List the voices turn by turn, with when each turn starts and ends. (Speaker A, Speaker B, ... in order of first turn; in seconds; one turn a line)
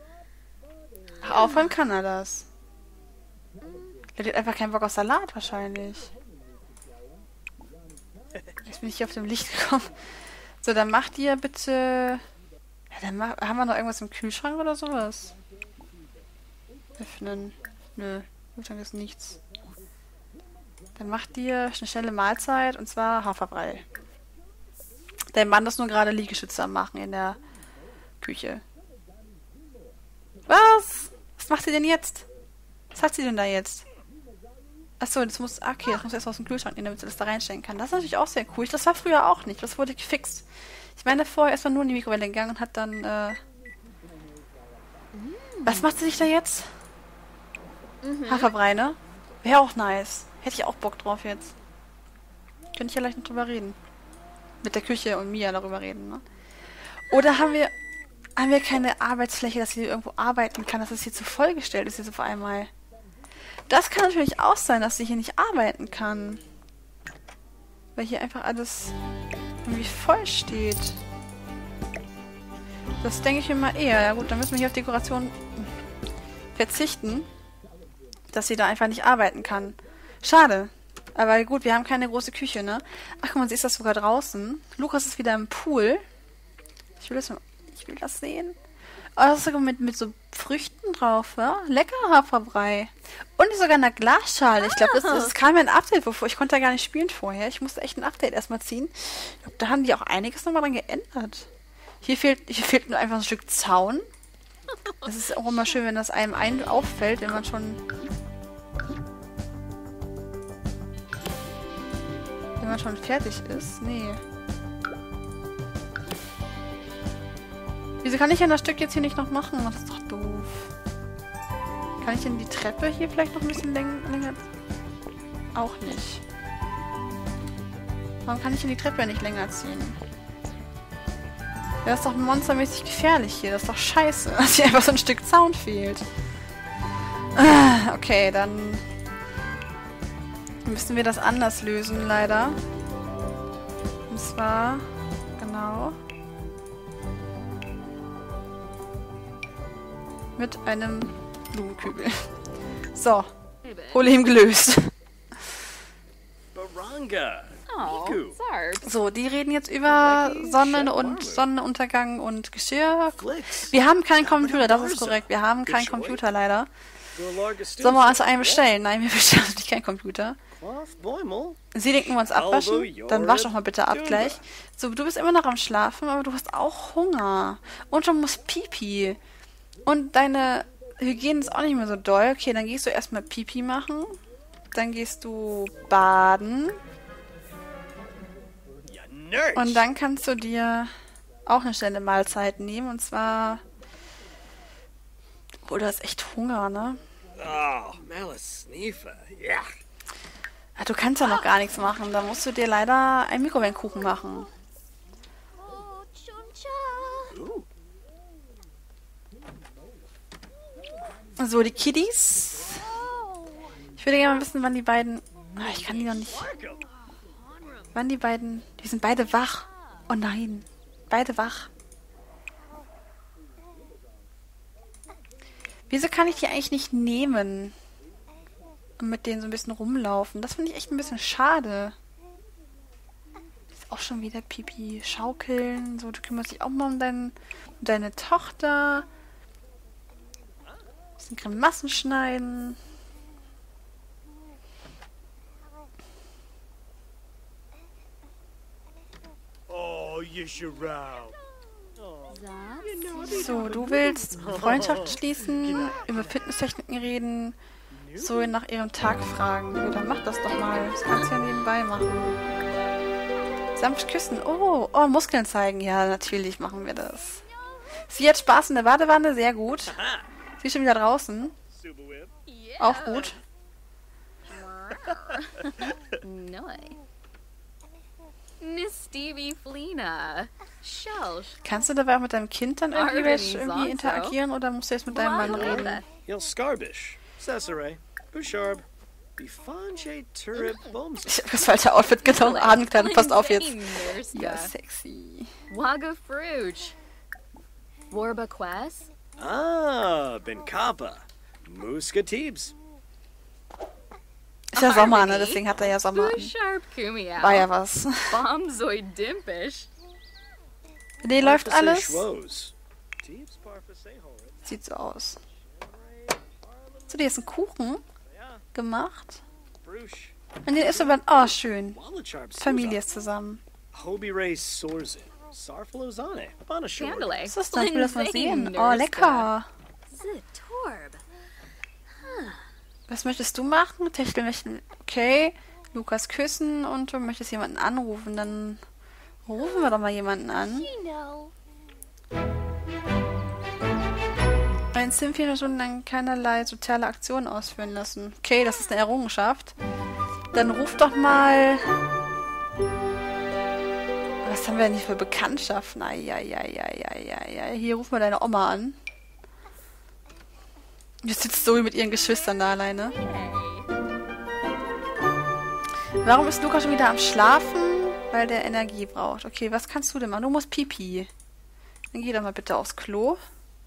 Speaker A: 1.2-2.5
Speaker B: 1.3-1.7
Speaker B: 3.6-4.0
Speaker A: 4.2-6.1
Speaker A: 8.6-10.0
Speaker A: 10.6-12.2
Speaker A: 12.9-15.4
Speaker A: 17.0-19.4
Speaker A: 21.0-23.9
Speaker A: 25.3-27.4
Speaker A: 28.2-28.6
Speaker A: 30.5-32.3
Speaker A: 32.9-33.9
Speaker A: 35.0-43.4
Speaker B: 45.1-46.0
Speaker A: 45.6-46.7
Speaker B: 48.0-48.5
Speaker A: 48.3-51.5
Speaker A: 52.8-53.8
Speaker A: 54.6-56.2
Speaker A: 57.0-57.7
Speaker B: 57.1-57.6
Speaker A: 58.4-62.7
Speaker A: 63.7-66.4
Speaker A: 68.0-69.0
Speaker A: 69.7-71.0
Speaker A: 73.0-75.7
Speaker A: 76.5-77.3
Speaker A: 78.3-86.0
Speaker A: 87.0-88.6
Speaker A: 89.2-101.5
Speaker B: 94.7-95.3
Speaker A: 102.0-104.1
Speaker B: 104.9-105.3
Speaker A: 105.0-107.8
Speaker A: 112.6-114.2
Speaker A: 118.0-120.7
Speaker A: 122.0-124.5
Speaker A: 125.5-126.2
Speaker A: 128.2-130.0
Speaker A: 131.8-136.1
Speaker A: 137.3-138.9
Speaker A: 140.6-142.6
Speaker A: 144.1-146.0
Speaker A: 150.4-152.3
Speaker A: 152.9-153.3
Speaker B: 153.6-154.1
Speaker A: 153.9-154.9
Speaker C: 156.5-158.4
Speaker B: 157.7-158.9
Speaker A: 158.8-166.7
Speaker C: 159.9-161.5
Speaker C: 163.2-166.2
Speaker C: 167.2-168.7
Speaker A: 167.8-170.4
Speaker C: 170.6-171.6
Speaker A: 171.7-179.2
Speaker C: 172.2-174.4
Speaker A: 179.9-184.2
Speaker A: 184.7-186.8
Speaker C: 188.9-189.9
Speaker A: 189.6-190.9
Speaker A: 191.5-193.6
Speaker A: 195.7-197.0
Speaker C: 197.3-199.8
Speaker A: 200.8-204.5
Speaker B: 201.2-201.5
Speaker B: 205.6-207.4
Speaker C: 207.3-207.7
Speaker A: 211.4-213.0
Speaker B: 213.0-213.7
Speaker A: 214.0-216.5
Speaker B: 215.6-217.9
Speaker C: 216.2-216.8
Speaker A: 217.9-221.7
Speaker A: 225.9-227.8
Speaker A: 229.0-231.9
Speaker A: 233.8-239.1
Speaker A: 241.2-242.8
Speaker C: 249.7-251.4
Speaker C: 252.0-256.5
Speaker B: 252.3-254.3
Speaker A: 253.2-257.6
Speaker C: 257.9-258.5
Speaker A: 258.2-262.4
Speaker B: 260.7-261.1
Speaker A: 263.8-267.4
Speaker A: 268.1-270.0
Speaker A: 270.6-271.6
Speaker C: 271.7-272.3
Speaker B: 272.5-273.3
Speaker A: 272.8-273.4
Speaker B: 274.5-277.0
Speaker B: 278.6-281.5
Speaker A: 281.6-286.0
Speaker B: 282.9-284.4
Speaker B: 285.1-286.1
Speaker C: 285.4-288.9
Speaker C: 289.4-291.5
Speaker B: 290.6-290.9
Speaker A: 291.3-295.5
Speaker B: 292.2-294.7
Speaker B: 295.7-297.0
Speaker B: 298.1-299.1
Speaker C: 299.4-302.7
Speaker A: 304.7-306.5
Speaker B: 304.8-307.7
Speaker A: 307.4-308.4
Speaker B: 308.2-309.9
Speaker A: 311.2-312.3
Speaker C: 311.4-314.7
Speaker A: 314.6-315.4
Speaker C: 315.7-317.4
Speaker A: 317.1-318.0
Speaker C: 318.3-318.6
Speaker A: 318.7-319.4
Speaker C: 319.8-323.0
Speaker A: 320.6-322.0
Speaker A: 322.6-323.6
Speaker C: 323.9-327.4
Speaker B: 326.9-329.5
Speaker A: 327.5-329.7
Speaker B: 330.1-331.2
Speaker B: 332.1-332.7
Speaker A: 333.1-338.8
Speaker A: 339.5-340.9
Speaker B: 339.6-340.0
Speaker B: 340.6-341.5
Speaker A: 344.9-349.8
Speaker A: 350.5-351.9
Speaker A: 354.4-359.0
Speaker A: 361.2-363.2
Speaker B: 363.0-363.9
Speaker A: 366.2-371.3
Speaker A: 372.1-373.4